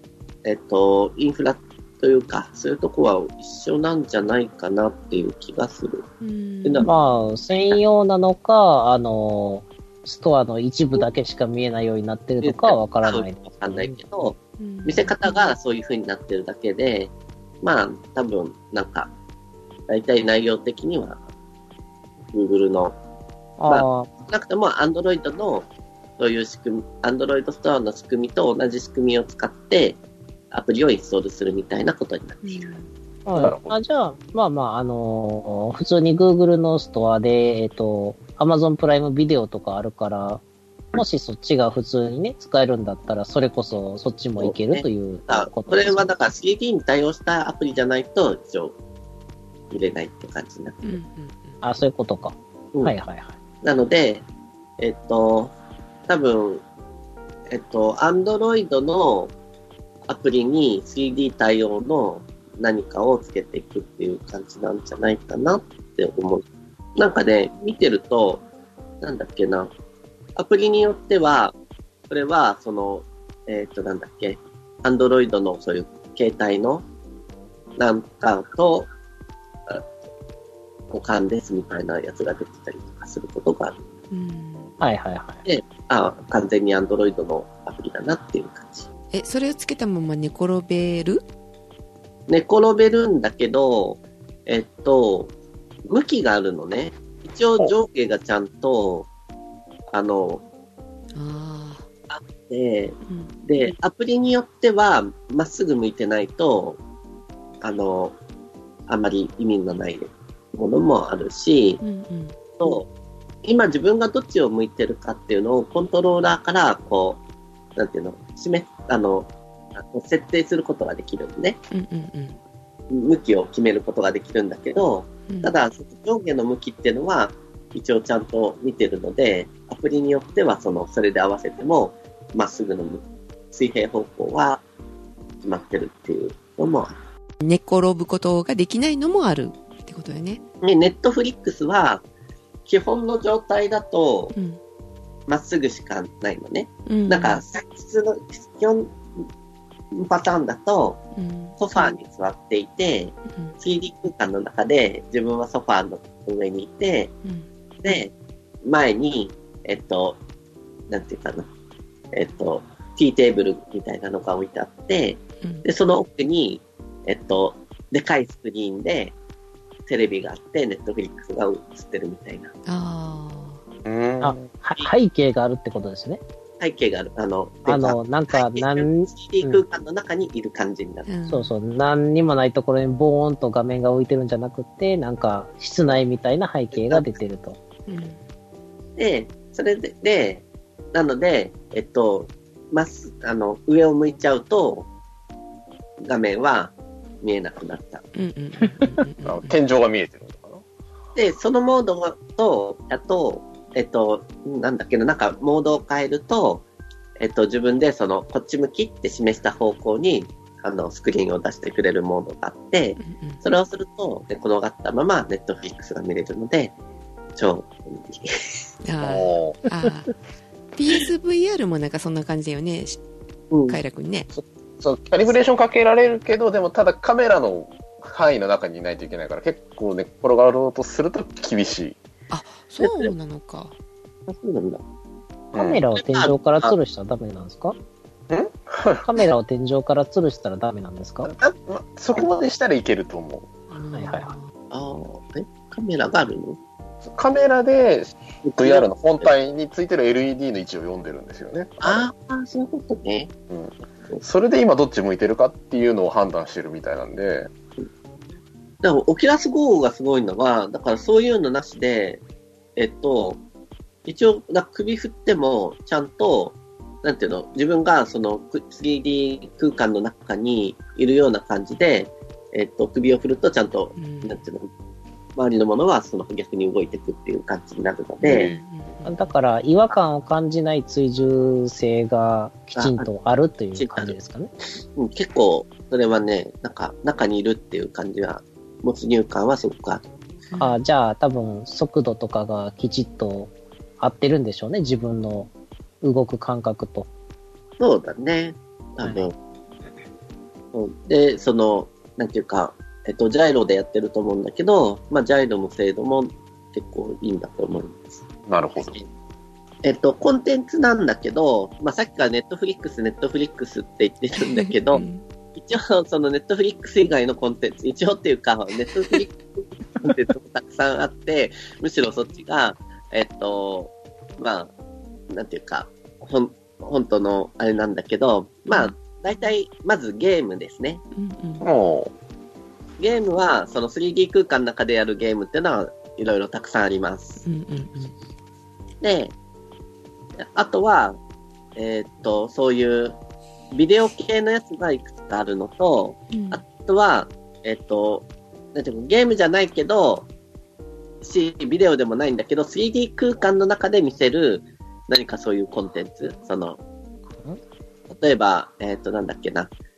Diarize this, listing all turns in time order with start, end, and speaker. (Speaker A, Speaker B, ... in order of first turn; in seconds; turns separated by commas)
Speaker A: 0.4-6.0, Speaker B: 6.2-6.9, Speaker A: 6.6-6.9, Speaker C: 6.8-14.0, Speaker A: 12.4-19.1, Speaker B: 14.6-15.5, Speaker A: 19.9-21.2, Speaker A: 22.3-22.9, Speaker C: 23.6-24.1, Speaker A: 23.7-25.6, Speaker A: 26.2-30.0, Speaker A: 30.5-32.7, Speaker B: 32.4-32.9, Speaker C: 33.2-40.4, Speaker D: 33.3-33.8, Speaker C: 40.9-46.1, Speaker A: 44.4-48.8, Speaker A: 49.7-51.0, Speaker B: 50.8-51.6, Speaker C: 51.6-53.3, Speaker A: 53.6-54.2, Speaker A: 54.8-55.5, Speaker A: 56.1-56.6, Speaker A: 57.5-59.3, Speaker A: 60.0-66.4, Speaker A: 67.0-68.4, Speaker A: 69.0-69.7, Speaker A: 70.3-71.5, Speaker A: 72.1-76.8, Speaker A: 77.8-78.9, Speaker A: 80.9-83.8, Speaker B: 84.1-84.7, Speaker C: 84.8-85.4, Speaker A: 85.4-88.8, Speaker B: 89.1-91.2, Speaker A: 92.3-95.3, Speaker A: 95.8-99.1, Speaker A: 99.9-100.4, Speaker B: 101.1-101.8, Speaker A: 102.1-106.8, Speaker B: 103.1-103.3, Speaker A: 107.6-108.1, Speaker A: 108.9-111.8, Speaker B: 111.8-112.3, Speaker A: 112.6-112.9, Speaker A: 113.4-117.2, Speaker A: 117.8-121.6, Speaker B: 121.7-122.3, Speaker A: 122.9-134.6, Speaker B: 125.3-125.5, Speaker A: 135.4-136.9, Speaker B: 137.4-140.4, Speaker A: 140.6-142.0, Speaker A: 142.7-144.3, Speaker B: 144.3-144.6, Speaker A: 145.3-149.0, Speaker B: 146.9-147.4, Speaker A: 149.9-151.0, Speaker B: 151.2-151.9, Speaker A: 151.6-157.1, Speaker B: 153.3-153.5, Speaker A: 157.8-158.1, Speaker A: 158.6-160.2, Speaker A: 160.9-161.5, Speaker A: 162.1-169.1, Speaker A: 169.9-172.5, Speaker B: 172.7-173.6, Speaker D: 173.8-174.5, Speaker C: 174.2-176.2, Speaker A: 176.6-181.1, Speaker C: 177.7-179.6, Speaker B: 181.1-181.5, Speaker C: 181.3-187.6, Speaker A: 186.7-187.2, Speaker B: 187.9-188.2, Speaker A: 189.0-194.9, Speaker A: 196.0-198.0, Speaker B: 198.1-199.6, Speaker D: 199.2-200.6, Speaker A: 201.2-206.6, Speaker A: 207.2-216.7, Speaker B: 213.0-213.4, Speaker A: 217.3-218.6, Speaker B: 218.8-220.1, Speaker D: 219.0-219.6, Speaker B: 220.7-223.0, Speaker A: 223.5-223.8, Speaker B: 223.7-224.3, Speaker D: 224.3-232.0, Speaker B: 232.3-233.7, Speaker A: 232.8-233.1, Speaker A: 234.3-234.8, Speaker D: 235.5-235.8, Speaker C: 235.5-237.8, Speaker A: 235.9-236.8, Speaker D: 238.3-239.1, Speaker C: 239.0-241.3, Speaker D: 241.2-243.5, Speaker B: 243.7-244.5, Speaker C: 243.9-244.3, Speaker A: 244.7-246.6, Speaker D: 247.0-252.1, Speaker A: 248.4-249.3, Speaker A: 251.8-253.3, Speaker D: 253.5-257.5, Speaker A: 258.8-262.2, Speaker A: 262.8-263.4, Speaker A: 264.0-274.7, Speaker B: 274.0-274.4, Speaker A: 275.4-278.5, Speaker D: 278.2-278.6, Speaker B: 278.3-279.3, Speaker C: 279.0-284.5, Speaker A: 282.8-283.1, Speaker A: 283.7-284.2, Speaker A: 284.9-290.0, Speaker B: 290.5-290.8, Speaker C: 290.6-295.5, Speaker C: 296.0-297.1, Speaker A: 297.8-299.3, Speaker C: 299.0-299.3, Speaker A: 300.7-308.2, Speaker D: 308.5-309.0, Speaker A: 308.8-309.1, Speaker A: 309.8-324.7, Speaker B: 314.4-315.2, Speaker A: 325.3-331.0, Speaker B: 328.7-328.9, Speaker B: 331.1-331.6, Speaker D: 331.6-332.1, Speaker A: 333.0-337.4, Speaker B: 337.4-338.1, Speaker A: 339.0-339.3, Speaker A: 340.4-341.2, Speaker A: 341.8-343.1, Speaker A: 343.7-350.3, Speaker B: 346.3-346.6, Speaker A: 351.2-356.8, Speaker A: 358.1-359.7